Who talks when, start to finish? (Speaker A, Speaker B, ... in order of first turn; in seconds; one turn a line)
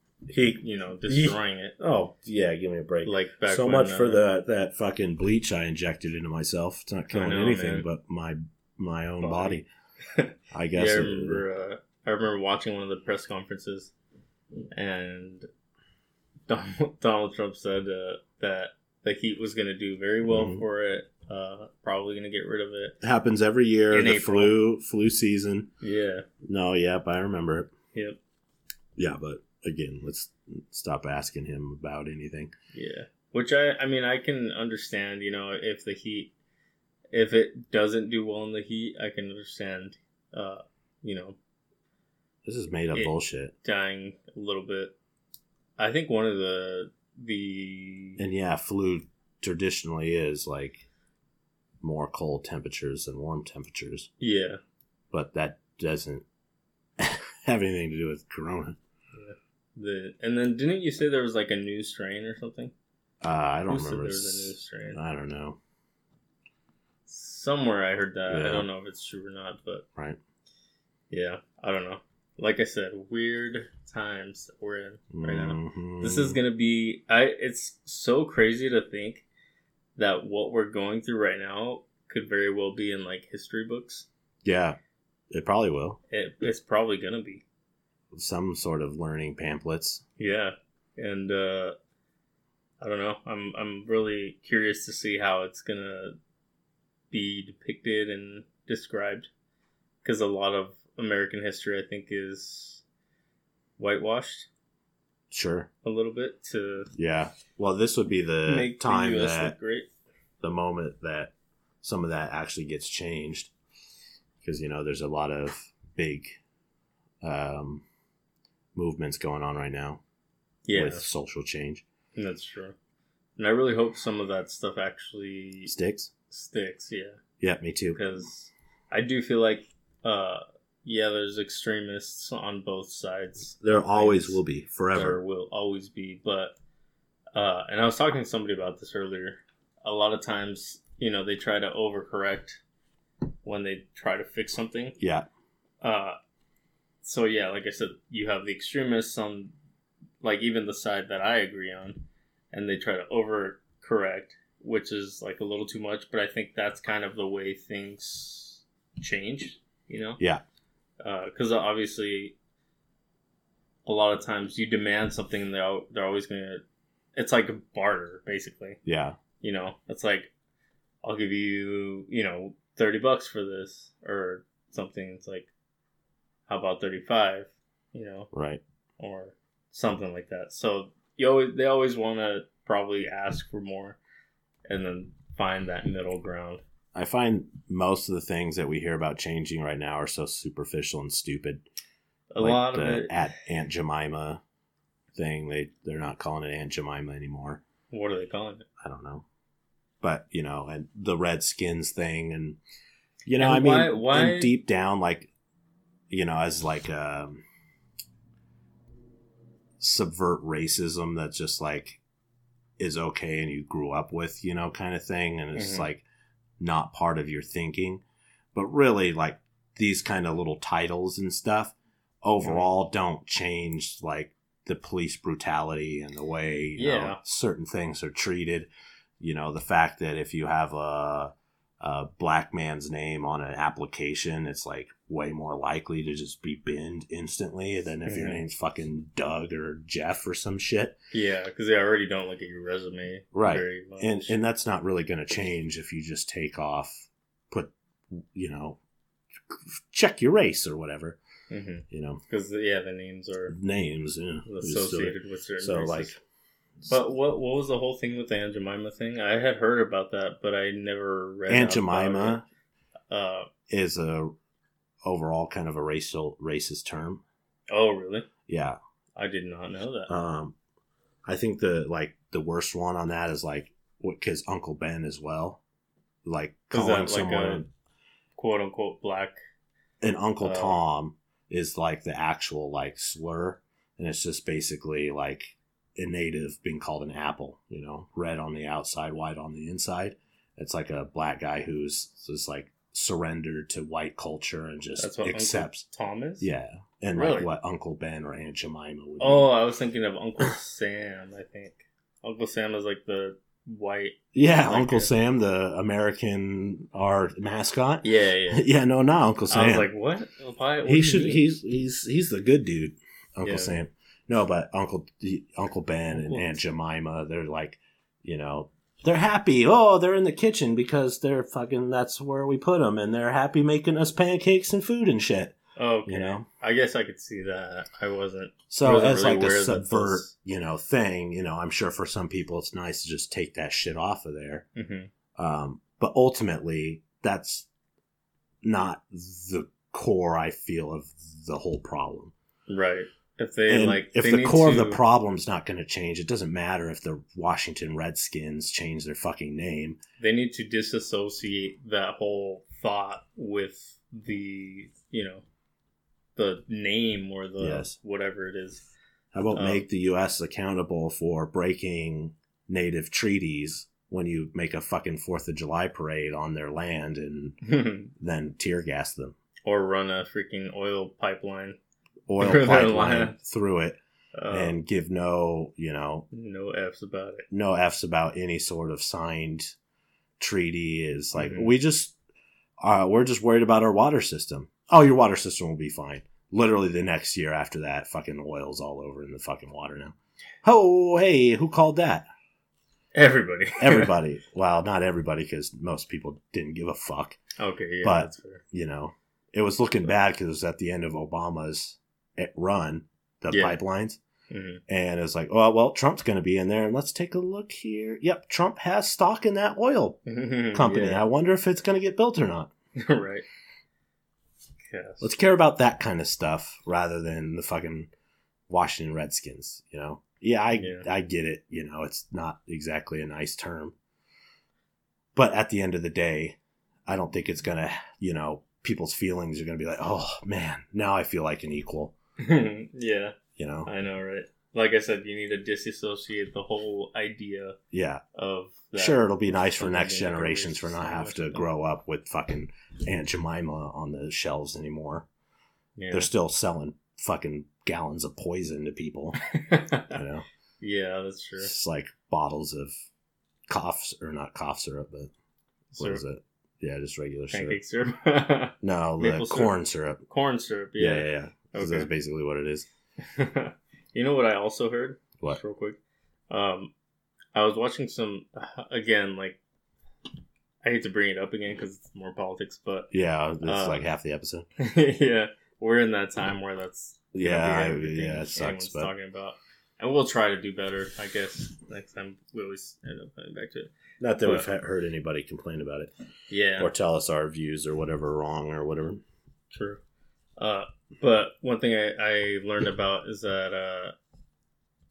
Speaker A: 0.3-9.7
Speaker B: 0.5-1.8
Speaker B: 3.0-4.2
Speaker B: 7.1-7.9
Speaker B: 9.2-13.9
Speaker A: 10.5-11.4
Speaker B: 14.7-15.5
Speaker B: 16.5-23.0
Speaker A: 20.3-20.6
Speaker A: 23.0-25.7
Speaker B: 23.9-24.6
Speaker B: 25.8-26.3
Speaker A: 26.4-27.7
Speaker A: 29.0-32.5
Speaker B: 32.7-36.3
Speaker B: 37.1-41.4
Speaker A: 42.5-43.5
Speaker B: 42.9-45.0
Speaker B: 45.8-48.2
Speaker A: 48.2-50.8
Speaker A: 51.8-54.1
Speaker B: 54.2-54.6
Speaker A: 55.1-56.2
Speaker A: 57.0-58.8
Speaker B: 59.1-62.7
Speaker A: 63.2-65.6
Speaker B: 63.7-65.0
Speaker B: 67.1-69.8
Speaker A: 68.3-68.7
Speaker B: 71.1-79.3
Speaker A: 75.1-76.4
Speaker B: 80.0-84.1
Speaker A: 84.4-84.8
Speaker A: 85.3-86.0
Speaker B: 86.1-87.4
Speaker A: 88.1-90.0
Speaker B: 90.2-91.8
Speaker B: 92.8-96.2
Speaker B: 97.1-99.3
Speaker B: 100.0-102.8
Speaker B: 103.8-104.5
Speaker A: 105.3-105.7
Speaker B: 105.8-106.9
Speaker A: 107.0-109.5
Speaker B: 108.5-109.9
Speaker A: 110.4-113.5
Speaker A: 114.4-116.4
Speaker A: 117.2-117.8
Speaker A: 118.7-120.0
Speaker B: 120.7-121.1
Speaker A: 120.7-121.8
Speaker B: 122.1-122.7
Speaker B: 123.4-125.7
Speaker A: 125.7-126.1
Speaker B: 126.3-127.2
Speaker A: 127.4-128.0
Speaker B: 127.9-134.4
Speaker A: 133.6-135.2
Speaker B: 134.9-136.6
Speaker B: 137.3-142.6
Speaker B: 143.4-144.9
Speaker A: 145.0-145.3
Speaker B: 145.8-146.2
Speaker B: 147.0-149.5
Speaker B: 150.2-160.2
Speaker B: 161.0-162.3
Speaker B: 163.9-166.6
Speaker B: 167.2-168.8
Speaker A: 168.8-169.2
Speaker B: 169.4-170.3
Speaker B: 171.0-175.5
Speaker B: 176.5-178.3
Speaker A: 178.3-178.6
Speaker B: 179.0-184.0
Speaker B: 184.7-186.6
Speaker A: 186.9-191.6
Speaker B: 192.3-193.3
Speaker A: 192.4-194.4
Speaker A: 195.1-197.6
Speaker B: 197.9-198.7
Speaker A: 198.8-199.2
Speaker A: 200.0-202.6
Speaker A: 203.3-205.3
Speaker B: 203.4-204.5
Speaker A: 206.1-207.4
Speaker A: 209.8-212.0
Speaker A: 212.8-216.0
Speaker B: 215.6-215.9
Speaker A: 216.6-218.0
Speaker A: 218.5-228.7
Speaker B: 222.4-222.7
Speaker B: 226.8-227.2
Speaker A: 229.2-240.9
Speaker B: 238.1-238.4
Speaker B: 241.1-244.4
Speaker A: 243.3-248.8
Speaker A: 249.5-251.2
Speaker B: 251.5-253.6
Speaker A: 251.9-252.2
Speaker A: 253.5-256.2
Speaker B: 254.4-256.1
Speaker B: 256.9-262.4
Speaker A: 261.5-262.4
Speaker B: 263.1-263.5
Speaker A: 263.7-264.3
Speaker A: 265.1-267.2
Speaker B: 267.7-268.3
Speaker A: 268.5-268.8
Speaker B: 269.2-270.1
Speaker A: 270.1-270.6
Speaker A: 271.3-275.6
Speaker A: 276.2-277.7
Speaker B: 276.7-277.6
Speaker B: 278.4-279.4
Speaker A: 280.0-295.9
Speaker B: 280.4-280.8
Speaker B: 295.0-296.5
Speaker A: 296.4-299.5
Speaker B: 297.1-297.5
Speaker B: 299.2-305.1
Speaker A: 304.3-309.9
Speaker B: 308.0-308.7
Speaker B: 309.5-311.4
Speaker A: 310.9-326.4
Speaker B: 313.4-313.7
Speaker B: 316.1-316.6
Speaker B: 325.8-330.3
Speaker A: 328.7-334.7
Speaker B: 334.7-335.1
Speaker A: 335.4-337.7
Speaker A: 338.6-342.3
Speaker B: 342.7-345.0
Speaker A: 343.7-350.0
Speaker B: 350.2-355.4
Speaker B: 356.4-358.8
Speaker A: 357.6-357.9
Speaker A: 359.3-367.6
Speaker B: 359.5-359.9
Speaker B: 367.6-368.1
Speaker A: 368.1-369.4
Speaker B: 369.6-371.8
Speaker A: 372.3-374.0
Speaker B: 372.4-373.4
Speaker B: 374.3-374.8
Speaker A: 374.5-376.3
Speaker B: 376.3-377.4
Speaker A: 377.5-379.7
Speaker A: 380.4-382.1
Speaker B: 381.4-381.7
Speaker A: 382.8-392.3
Speaker B: 393.1-394.1
Speaker A: 393.8-397.4
Speaker B: 397.6-398.6
Speaker A: 398.0-404.2
Speaker B: 403.5-403.8
Speaker B: 404.5-404.8
Speaker A: 404.9-410.2
Speaker B: 410.3-411.3
Speaker A: 410.7-412.7
Speaker B: 412.9-413.4
Speaker B: 414.9-415.3
Speaker A: 415.2-418.1
Speaker A: 418.7-423.9
Speaker B: 420.8-421.1
Speaker A: 425.4-432.1
Speaker B: 432.4-437.8
Speaker A: 433.6-433.9
Speaker A: 437.9-438.2
Speaker B: 438.3-441.6
Speaker A: 438.9-445.3
Speaker B: 446.0-446.3
Speaker A: 446.1-449.4
Speaker B: 449.5-450.2
Speaker A: 450.1-450.4
Speaker B: 450.8-451.7
Speaker A: 451.6-452.9
Speaker A: 453.7-455.3
Speaker B: 455.9-456.2
Speaker A: 455.9-457.8
Speaker B: 457.5-459.7
Speaker A: 458.8-460.2
Speaker B: 460.3-462.1
Speaker A: 461.0-462.9
Speaker B: 463.2-466.0
Speaker B: 466.5-466.9
Speaker B: 467.6-469.6
Speaker B: 470.8-473.1
Speaker A: 473.1-474.7
Speaker B: 473.6-474.1
Speaker B: 474.8-484.7
Speaker A: 477.3-479.1
Speaker A: 484.2-486.1
Speaker B: 486.5-486.9
Speaker A: 486.8-489.2
Speaker B: 489.7-490.0
Speaker B: 490.6-494.1